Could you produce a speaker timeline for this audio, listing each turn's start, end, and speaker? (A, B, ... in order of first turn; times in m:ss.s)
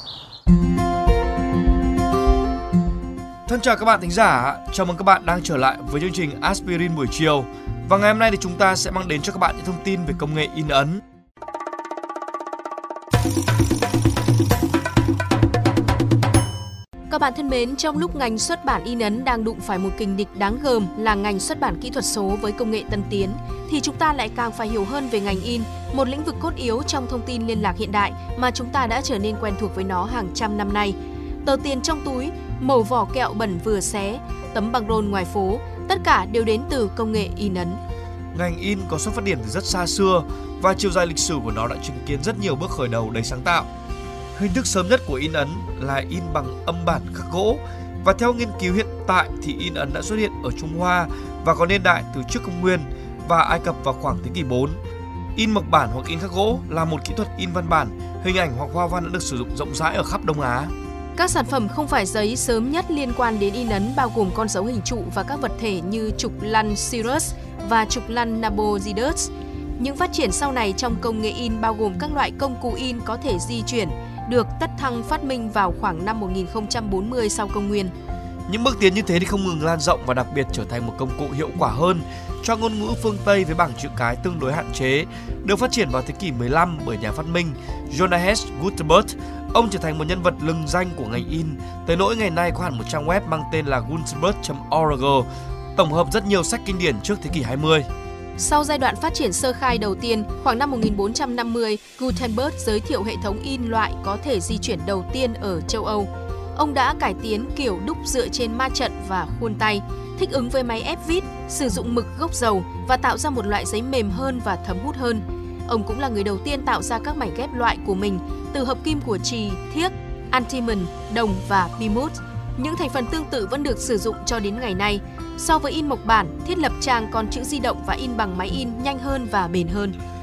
0:03.5-0:11.0 A
0:17.1-0:37.8 B
0:38.3-0:43.7 A
0:44.3-0:54.8 A
0:55.3-1:00.7 A
1:01.2-1:17.9 B
1:18.5-1:37.9 A
1:38.4-2:10.0 B